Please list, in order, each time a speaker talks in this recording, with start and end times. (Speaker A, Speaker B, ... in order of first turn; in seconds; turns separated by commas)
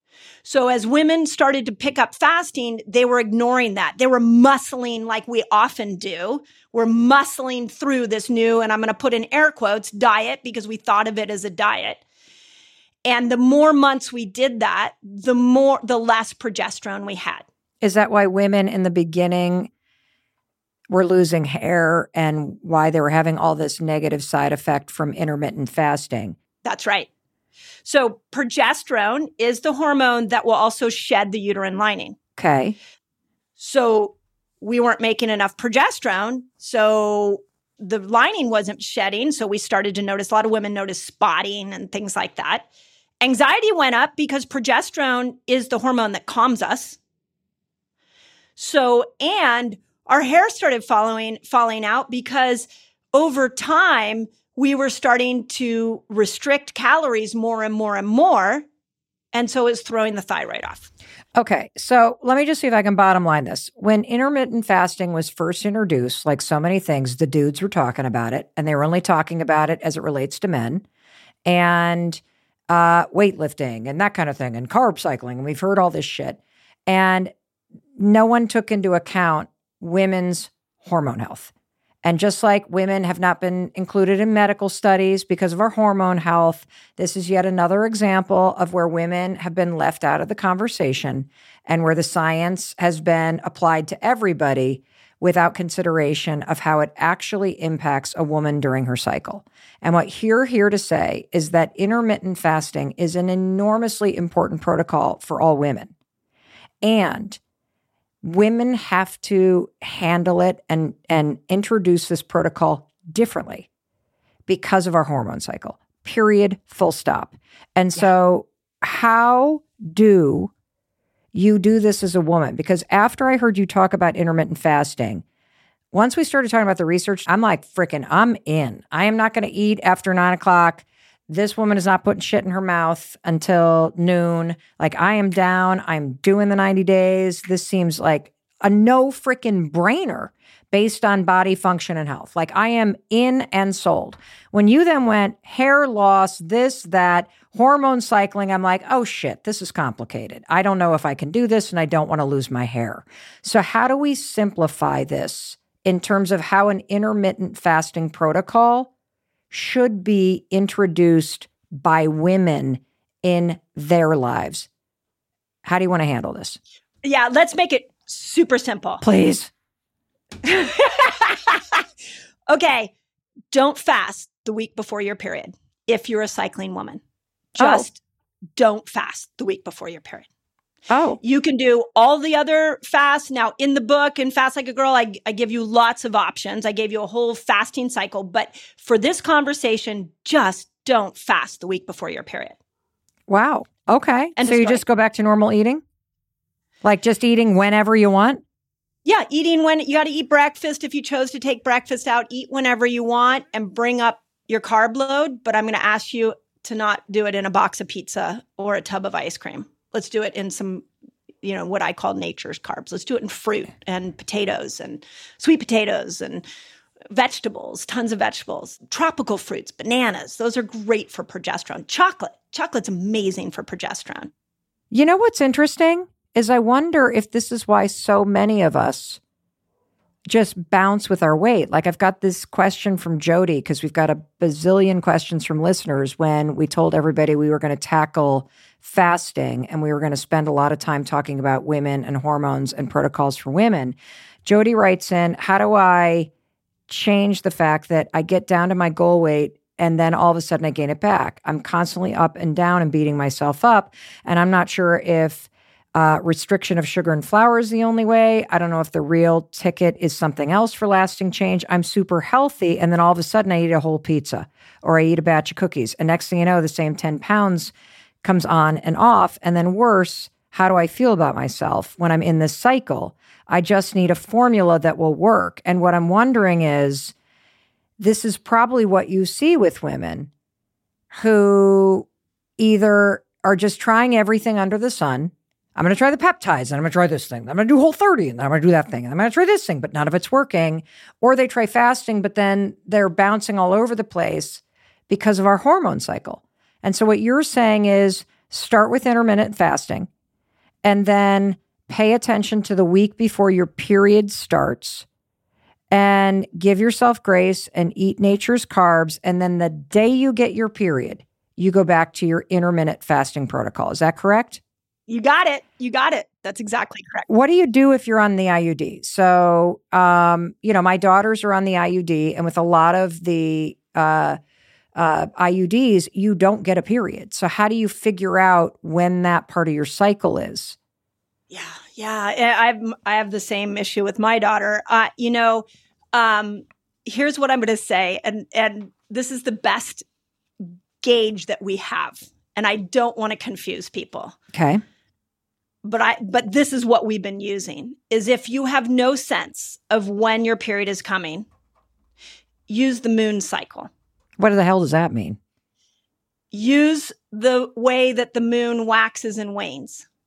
Speaker A: 0.5-12.0, Speaker A: 13.1-17.4, Speaker B: 17.8-19.7, Speaker B: 20.9-26.4, Speaker A: 26.6-27.1, Speaker A: 27.9-32.2, Speaker B: 32.4-32.8, Speaker A: 33.6-42.7, Speaker A: 43.2-47.0, Speaker A: 48.6-58.7, Speaker A: 59.3-60.9, Speaker B: 61.4-70.8, Speaker B: 71.5-77.3, Speaker B: 78.0-81.5, Speaker B: 82.0-105.9, Speaker B: 106.8-107.4, Speaker B: 108.2-113.7, Speaker B: 114.5-120.5, Speaker B: 121.3-125.2, Speaker B: 125.9-158.9, Speaker B: 159.5-164.7, Speaker B: 165.7-166.6, Speaker A: 167.0-169.0, Speaker B: 169.0-169.5, Speaker A: 170.4-171.9, Speaker A: 172.5-172.9, Speaker A: 173.5-177.0, Speaker B: 177.6-177.9, Speaker A: 177.6-178.0, Speaker A: 178.6-180.3, Speaker B: 180.9-181.2, Speaker A: 181.2-192.6, Speaker B: 193.3-195.8, Speaker A: 194.4-194.8, Speaker B: 196.8-198.4, Speaker A: 199.1-210.9, Speaker A: 211.4-216.4, Speaker A: 217.1-224.3, Speaker B: 224.9-229.2, Speaker B: 230.3-246.3, Speaker B: 246.9-267.7, Speaker B: 268.2-277.1, Speaker B: 278.0-280.3, Speaker B: 281.1-282.1, Speaker B: 282.6-300.1, Speaker B: 300.8-305.1, Speaker B: 305.9-314.6, Speaker A: 315.1-317.3, Speaker B: 317.3-324.4, Speaker B: 324.9-330.8, Speaker A: 331.5-340.1, Speaker A: 340.6-344.4, Speaker B: 344.5-344.8, Speaker A: 345.8-351.5, Speaker A: 352.7-353.9, Speaker B: 354.4-355.4, Speaker A: 356.5-360.1